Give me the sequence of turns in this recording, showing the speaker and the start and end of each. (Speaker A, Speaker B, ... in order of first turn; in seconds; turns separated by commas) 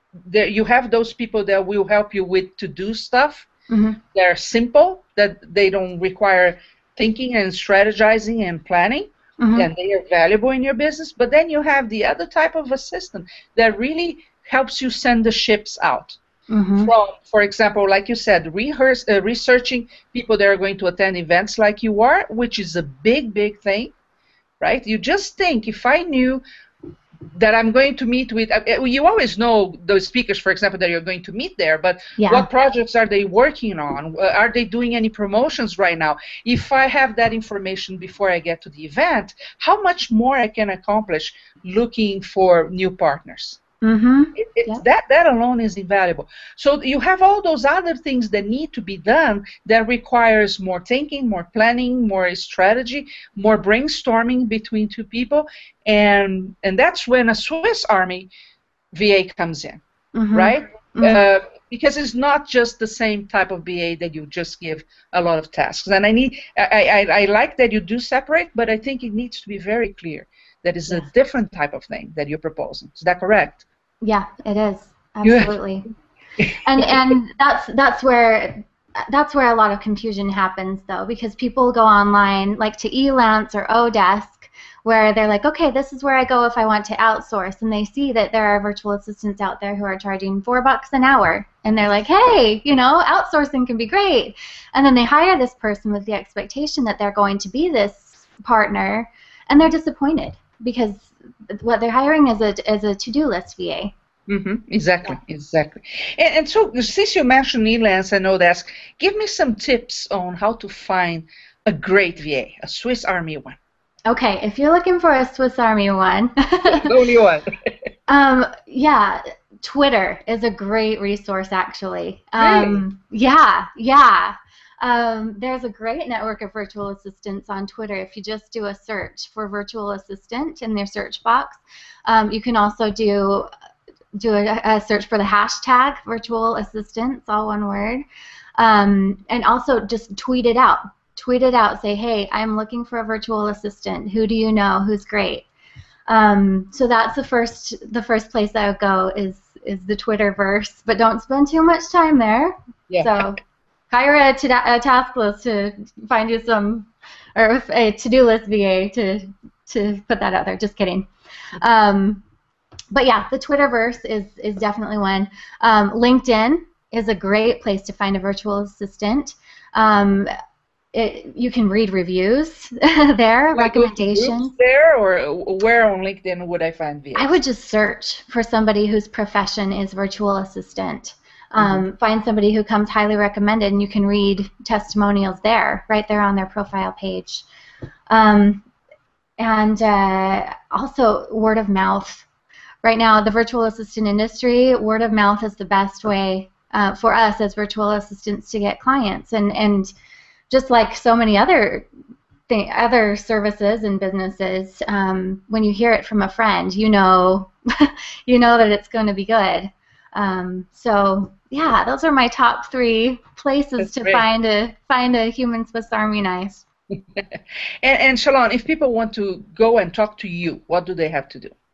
Speaker A: 0.3-3.5, Speaker B: 3.7-4.0, Speaker A: 4.1-16.2, Speaker B: 9.4-9.7, Speaker B: 16.5-16.9, Speaker A: 16.8-23.9, Speaker A: 24.6-26.4, Speaker A: 27.4-43.6, Speaker B: 32.2-32.5, Speaker B: 43.8-44.8, Speaker A: 44.4-58.3, Speaker A: 58.9-59.8, Speaker B: 60.1-61.2, Speaker A: 60.3-73.6, Speaker B: 74.0-75.9, Speaker A: 75.2-75.5, Speaker A: 76.4-77.1, Speaker B: 76.7-103.9, Speaker A: 104.3-113.6, Speaker B: 114.1-116.9, Speaker A: 116.7-117.8, Speaker B: 118.1-133.5, Speaker A: 122.4-122.8, Speaker B: 134.2-138.0, Speaker B: 138.6-145.5, Speaker B: 146.1-153.4, Speaker A: 152.9-153.2, Speaker B: 153.9-162.2, Speaker B: 162.9-170.3, Speaker B: 170.9-174.5, Speaker A: 173.6-177.4, Speaker B: 177.2-187.4, Speaker A: 181.6-181.8, Speaker B: 188.1-188.6, Speaker B: 189.4-192.3, Speaker B: 192.8-199.9, Speaker B: 200.5-201.9, Speaker B: 202.5-216.7, Speaker A: 213.8-214.2, Speaker A: 216.9-221.5